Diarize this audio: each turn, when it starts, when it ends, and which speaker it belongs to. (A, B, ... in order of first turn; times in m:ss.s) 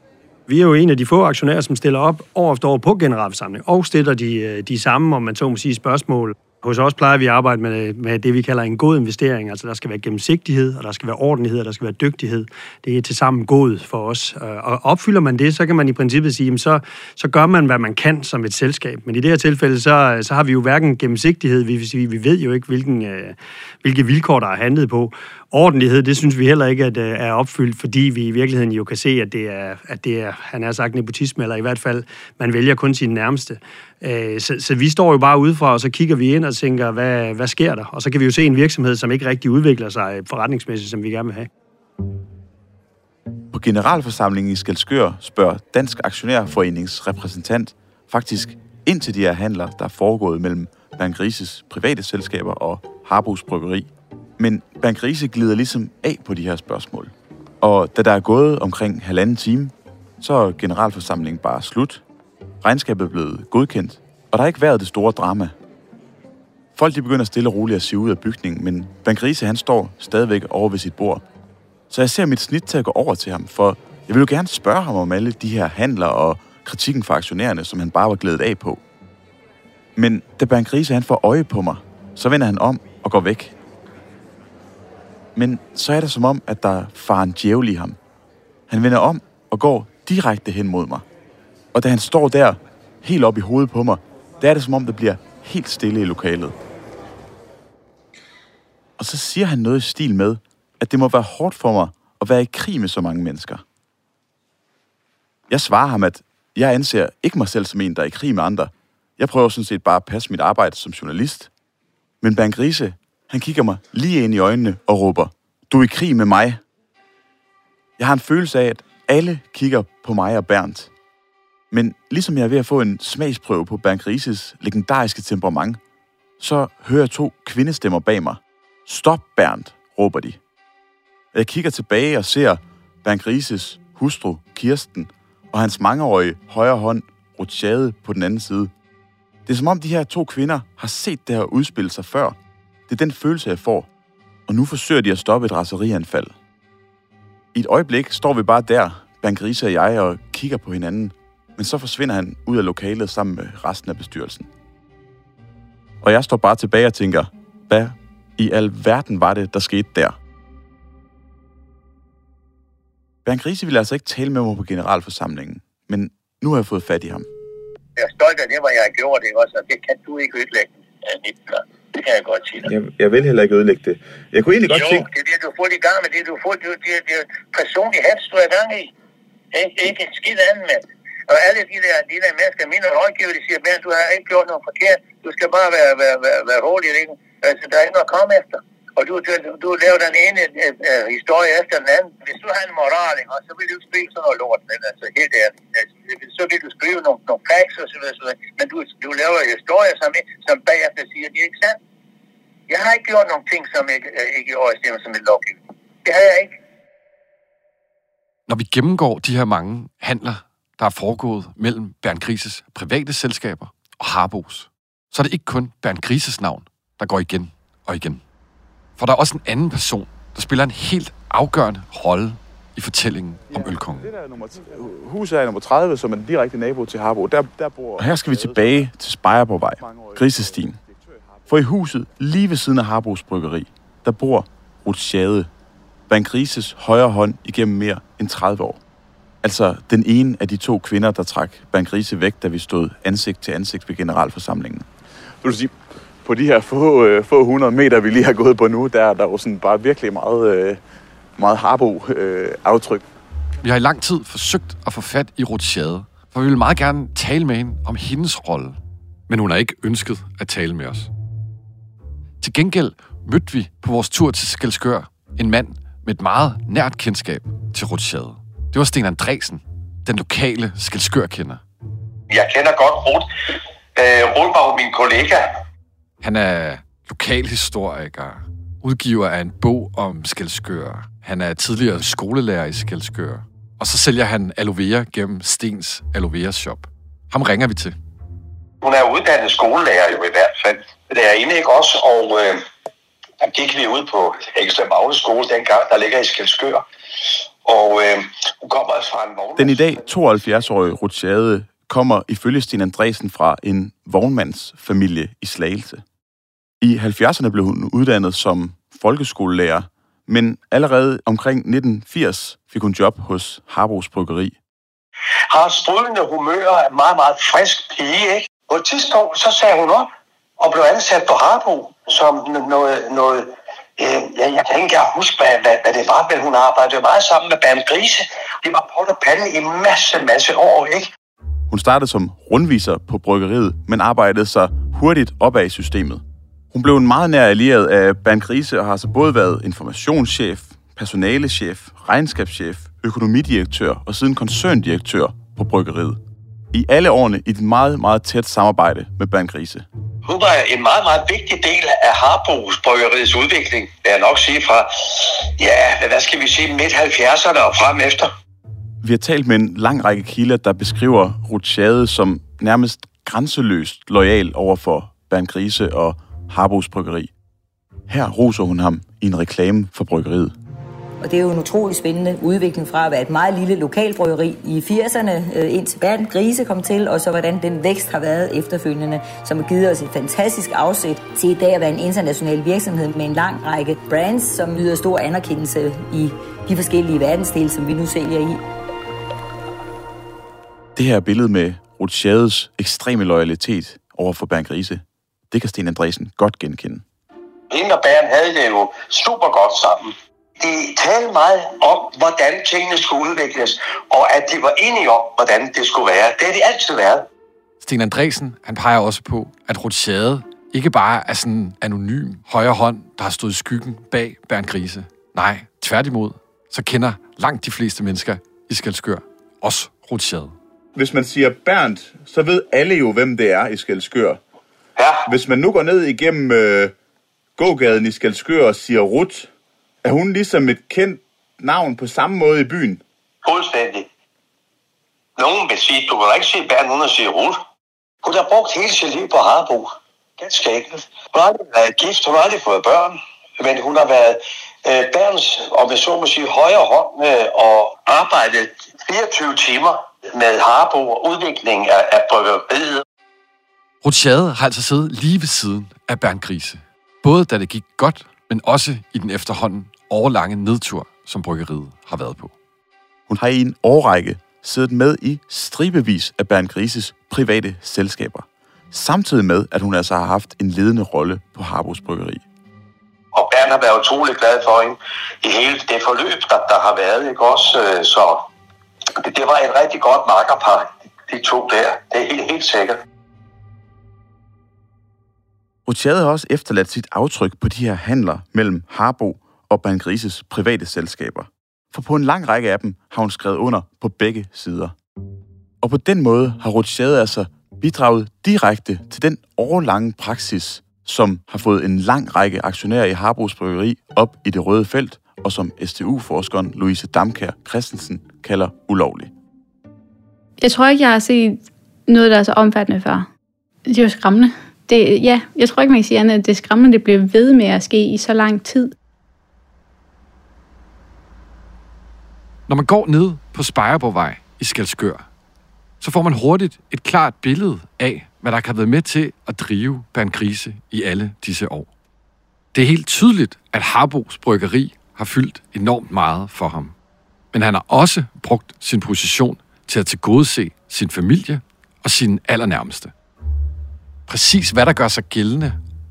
0:00.5-0:41.5 A
0:43.5-1:02.0 B
1:02.6-1:05.5 B
1:06.7-1:11.2 B
1:11.9-1:18.8 B
1:20.0-1:23.6 B
1:25.3-1:28.0 B
1:28.7-1:31.0 B
1:31.7-1:36.6 B
1:39.0-1:43.6 B
1:45.5-1:51.5 B
1:52.2-1:56.6 B
1:58.0-2:00.9 B
2:01.7-2:05.8 B
2:06.4-2:10.4 B
2:11.3-2:18.7 B
2:19.4-2:22.4 B
2:22.9-2:23.9 B
2:24.5-2:26.4 B
2:27.5-2:34.5 B
2:36.0-2:40.2 B
2:43.2-2:47.3 B
2:48.0-2:52.7 C
2:52.6-2:55.1 B
2:54.7-2:58.9 C
2:59.5-3:21.8 C
3:22.7-3:26.5 C
3:28.5-3:38.2 D
3:39.0-3:44.1 D
3:43.6-3:50.8 B
3:51.4-3:55.5 B
3:56.1-3:58.8 B
3:59.4-4:04.9 B
4:05.4-4:10.8 B
4:11.4-4:13.0 B
4:13.6-4:18.8 D
4:19.3-4:21.1 D
4:22.4-4:31.6 D
4:32.3-4:33.3 E
4:33.9-4:35.5 E
4:36.2-4:48.0 D
4:48.8-4:52.6 E
4:53.4-4:56.8 E
4:57.6-5:00.0 E
4:59.6-5:06.0 B
5:06.8-5:14.6 B
5:15.5-5:31.0 E
5:31.7-5:46.2 B
5:46.7-5:49.9 B
5:50.2-5:58.3 E
5:59.0-6:07.3 B
6:08.1-6:10.5 B
6:11.2-6:28.6 F
6:30.9-6:37.0 B
6:37.7-6:47.3 E
6:47.8-7:00.5 D
7:01.0-7:04.4 B
7:05.0-7:05.3 E
7:05.2-7:06.9 B
7:07.6-7:09.5 B
7:10.0-7:13.0 B
7:13.4-7:14.1 E
7:15.4-7:17.6 E
7:18.2-7:33.0 E
7:34.0-7:42.5 D
7:43.3-7:52.4 B
7:53.3-7:58.5 E
7:59.2-8:03.0 E
8:05.8-8:14.9 B
8:15.8-8:29.3 B
8:30.6-8:33.3 G
8:33.9-8:38.9 G
8:42.7-8:45.2 D
8:46.0-8:51.9 D
8:52.7-8:56.9 D
8:57.5-9:03.1 D
9:04.3-9:05.8 D